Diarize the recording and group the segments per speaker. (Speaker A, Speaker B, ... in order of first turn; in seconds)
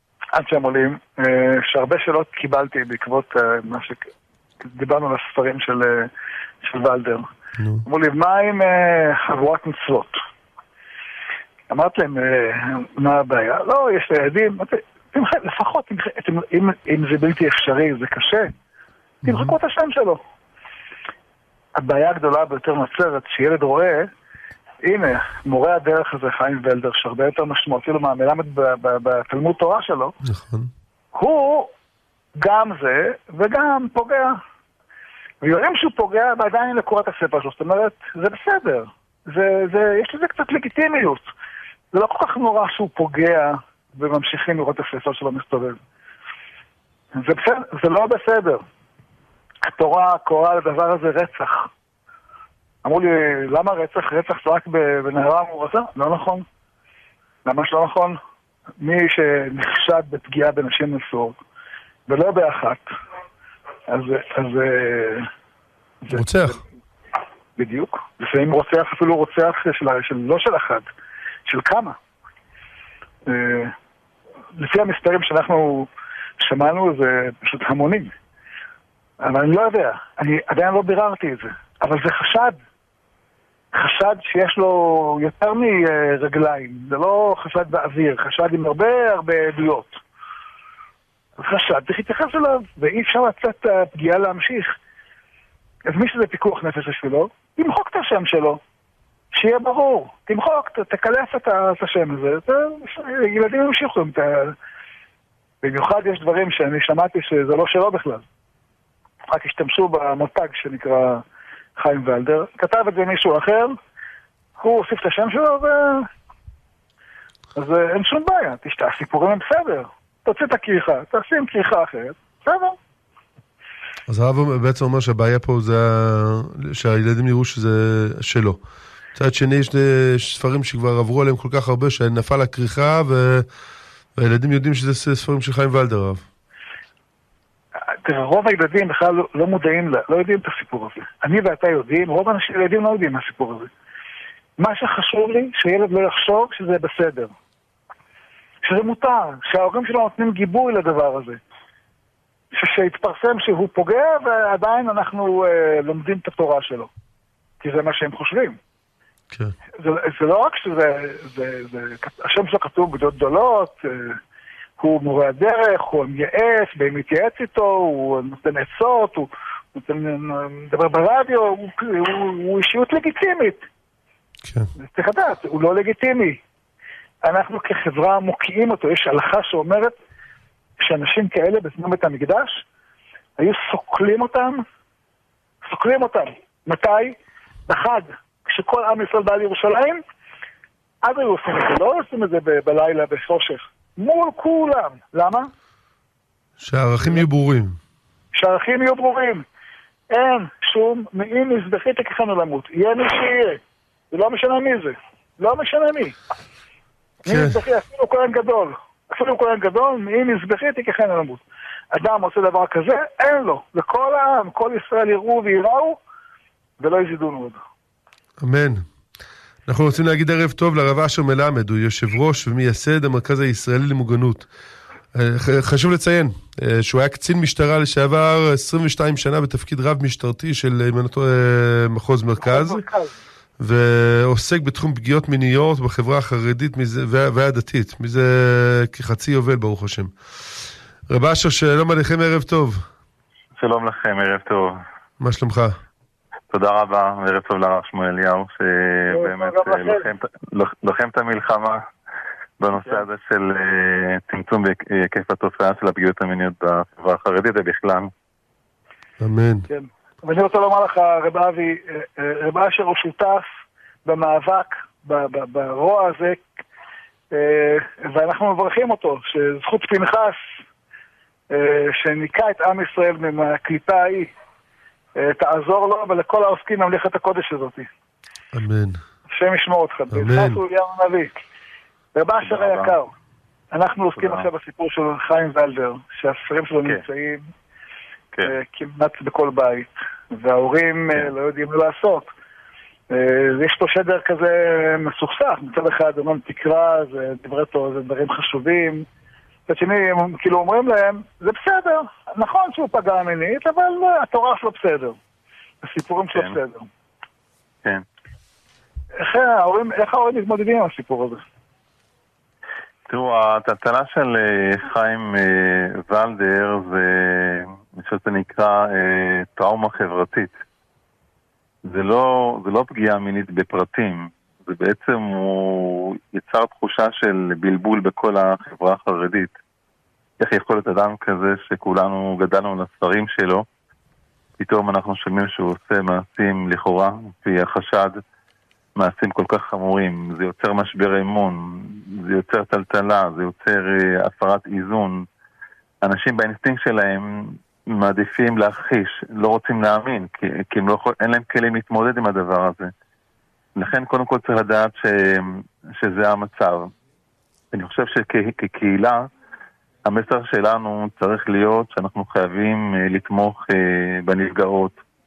Speaker A: 0.3-4.1, 4.6-6.1, 6.6-7.3, 7.8-10.2, 11.7-18.5, 19.2-20.2, 21.8-24.1, 24.8-30.1, 31.1-31.7, 32.4-34.4, 35.4-41.2, 41.9-45.8, 47.1-48.6, 49.6-51.7, 52.8-56.5, 57.4-58.2, 58.8-61.4, 62.1-62.9, 63.9-65.3, 66.0-66.5, 67.6-70.8, 71.5-72.0, 73.2-73.7, 74.5-75.9, 76.4-78.1, 79.2-82.6, 83.7-90.0, 91.4-94.7, 95.9-98.6, 99.3-104.5, 105.6-108.2, 109.3-111.2, 111.8-113.7, 114.6-116.1, 117.5-122.8, 137.9-143.7, 144.6-147.3, 148.6-151.4, 152.5-156.9, 157.6-158.6, 159.8-164.2, 164.8-173.6, 174.8-176.4, 177.2-179.9, 180.8-182.6, 183.4-184.6, 185.6-190.0, 191.0-195.5, 198.3-199.4, 200.1-206.2, 207.3-216.0, 216.8-217.6, 232.4-233.1, 249.1-250.1, 252.7-253.0, 259.7-263.5, 264.0-266.4, 267.3-270.5, 271.5-274.3, 275.1-277.9, 279.3-281.3, 282.1-283.1, 283.7-287.4, 288.4-292.3, 293.1-299.1, 299.7-305.1, 305.8-306.9, 309.2-311.4
Speaker B: 7.6-7.8, 19.2-19.5, 30.2-30.7, 66.1-66.6, 124.1-128.6, 129.1-133.5, 134.2-136.2, 196.6-197.8, 207.2-207.6, 218.4-218.8, 219.7-224.5, 225.1-232.8, 233.6-242.8, 245.2-245.8, 259.2-259.7, 278.5-279.0, 280.1-280.6
Speaker C: 243.6-244.8, 246.5-251.8, 252.6-258.1, 282.4-282.9, 284.2-284.4, 313.1-320.5, 321.8-329.5, 330.4-333.6, 334.6-338.2, 338.9-345.2, 346.0-352.9, 353.8-356.9, 357.7-359.3, 360.0-365.0